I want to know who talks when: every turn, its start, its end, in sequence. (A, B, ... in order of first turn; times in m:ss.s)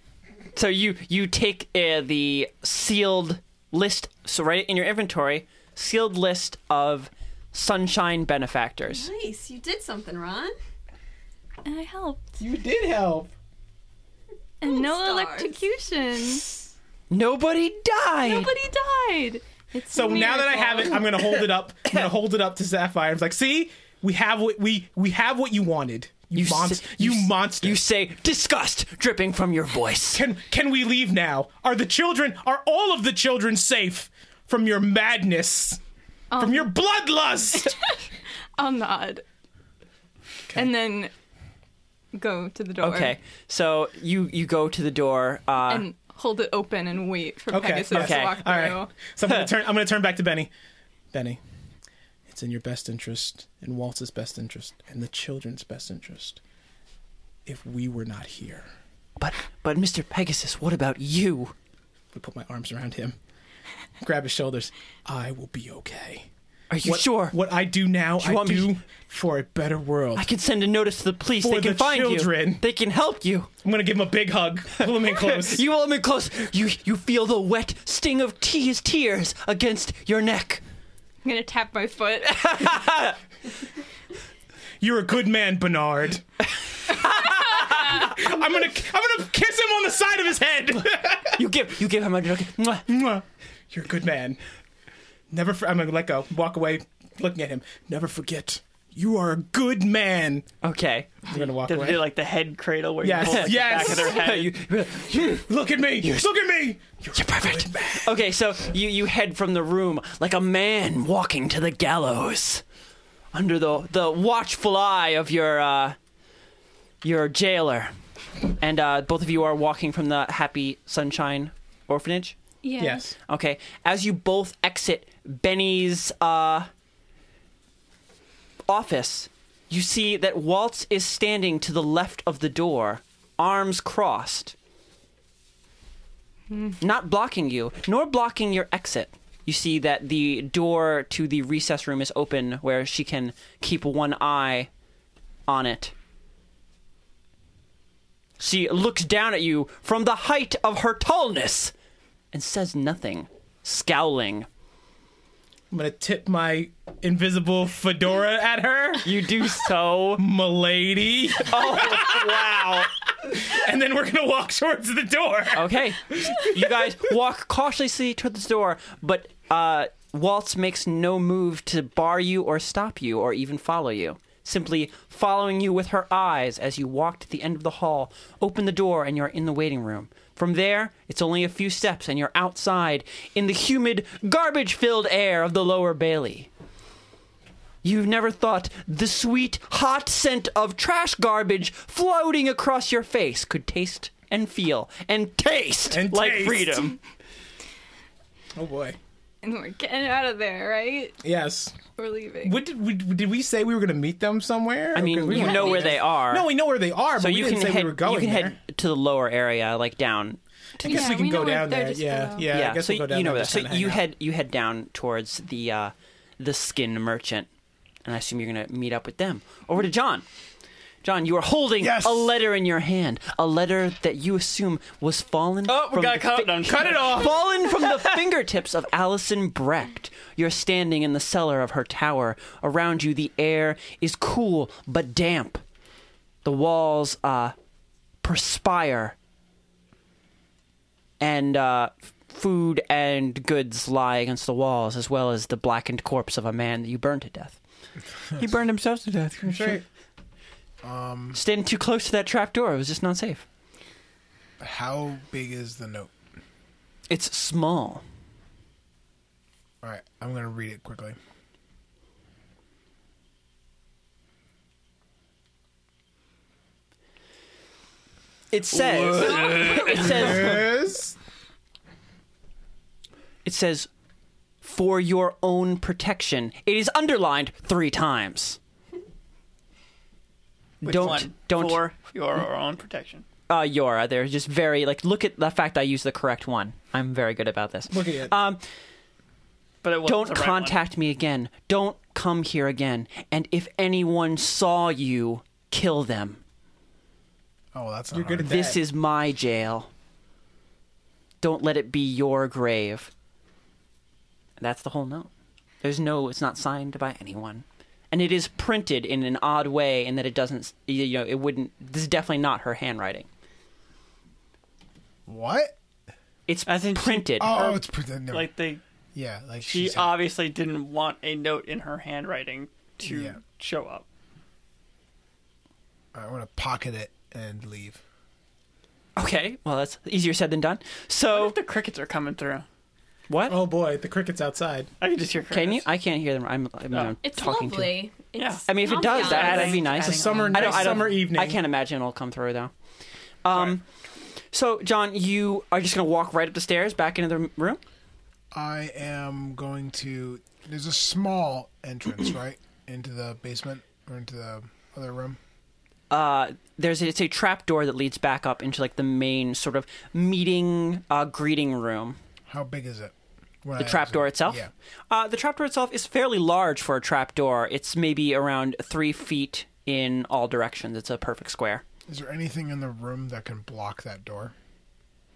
0:00.6-0:09.1 A
0:08.9-0:10.6 B
0:11.6-0:12.4 C
0:12.4-0:13.3 D
0:14.6-0:16.4 C
0:14.6-0:15.6 B
0:17.1-0:18.6 A
0:18.2-0:21.4 C
0:19.9-0:27.8 D
0:26.3-0:30.2 A
0:30.1-0:35.8 D
0:36.3-0:36.7 C
0:36.4-0:37.8 D
0:37.6-0:38.0 C
0:38.6-0:39.2 C
0:40.5-0:41.1 C
0:42.1-0:43.2 C
0:42.8-0:45.9 A
0:45.7-0:49.0 C
0:47.5-0:50.5 D
0:47.9-0:48.4 A
0:49.3-0:49.5 A
0:51.1-0:51.4 D
0:52.3-0:56.4 D
0:57.5-0:58.7 D
0:59.2-1:01.5 A
1:02.1-1:03.2 D
1:04.0-1:06.3 D
1:06.7-1:07.4 A
1:06.8-1:10.3 D
1:08.2-1:08.8 A
1:10.2-1:13.5 A
1:11.4-1:12.6 D
1:13.6-1:15.6 D
1:14.8-1:20.6 A
1:21.2-1:22.7 C
1:22.3-1:23.2 A
1:24.8-1:26.2 D
1:26.9-1:28.0 A
1:27.0-1:31.4 D
1:31.4-1:32.9 A
1:32.9-1:34.4 D
1:35.3-1:40.5 D
1:40.6-1:41.2 A
1:41.3-1:42.0 D
1:41.6-1:44.5 E
1:43.0-1:44.2 D
1:43.2-1:45.5 A
1:45.2-1:48.1 D
1:46.0-1:46.3 A
1:47.2-1:52.6 A
1:53.3-1:56.0 A
1:57.0-1:57.9 A
1:58.6-2:02.4 A
2:02.6-2:03.1 C
2:02.8-2:03.2 D
2:03.3-2:06.7 A
2:08.7-2:14.6 A
2:16.8-2:24.7 A
2:25.5-2:25.9 A
2:28.4-2:31.7 A
2:32.3-2:34.5 A
2:35.7-2:39.1 D
2:39.0-2:40.2 A
2:40.2-2:46.4 D
2:41.5-2:42.9 A
2:45.5-3:06.5 A
3:07.8-3:17.0 A
3:15.9-3:16.9 D
3:18.6-3:19.0 D
3:19.4-3:21.2 C
3:21.2-3:21.8 D
3:22.0-3:22.6 C
3:22.4-3:28.6 D
3:24.9-3:26.5 A
3:25.3-3:25.9 C
3:27.2-3:31.1 A
3:30.8-3:34.0 D
3:30.8-3:32.5 C
3:32.5-3:37.5 A
3:38.0-3:40.3 A
3:41.0-3:55.6 A
3:41.8-3:42.3 F
3:45.7-3:48.1 E
3:46.6-3:47.4 D
3:56.4-3:57.6 A
3:58.2-3:59.2 A
4:01.2-4:07.6 A
4:08.4-4:09.8 E
4:09.4-4:09.8 D
4:10.8-4:11.4 F
4:11.3-4:13.4 A
4:14.6-4:16.1 F
4:17.1-4:18.0 A
4:19.8-4:21.2 F
4:28.5-4:30.7 A
4:28.7-4:30.6 E
4:30.1-4:31.1 D
4:33.4-4:33.9 A
4:34.6-4:38.6 A
4:40.8-4:41.8 A
4:40.8-4:43.2 E
4:43.5-4:48.6 A
4:47.9-4:48.4 D
4:49.8-4:50.8 E
4:50.0-4:56.4 A
4:57.7-4:58.6 F
4:58.1-4:58.8 D
4:58.4-4:59.9 A
5:01.4-5:03.1 A
5:04.6-5:05.3 A
5:05.8-5:13.3 A
5:15.3-5:15.8 F
5:16.5-5:17.7 A
5:16.7-5:18.8 E
5:17.4-5:18.5 F
5:19.1-5:20.2 F
5:19.6-5:24.0 E
5:23.0-5:23.4 F
5:26.1-5:28.0 F
5:29.2-5:31.6 A
5:31.3-5:32.7 E
5:33.3-5:33.6 A
5:33.5-5:34.9 D
5:35.0-5:35.8 E
5:35.5-5:38.0 A
5:37.2-5:39.9 B
5:38.4-5:41.2 E
5:38.7-5:42.7 A
5:40.0-5:41.6 D
5:43.4-5:43.8 A
5:44.5-5:47.8 A
5:48.5-5:55.4 F
5:56.1-6:02.2 A
6:02.5-6:04.7 F
6:03.8-6:11.8 A
6:12.1-6:14.5 F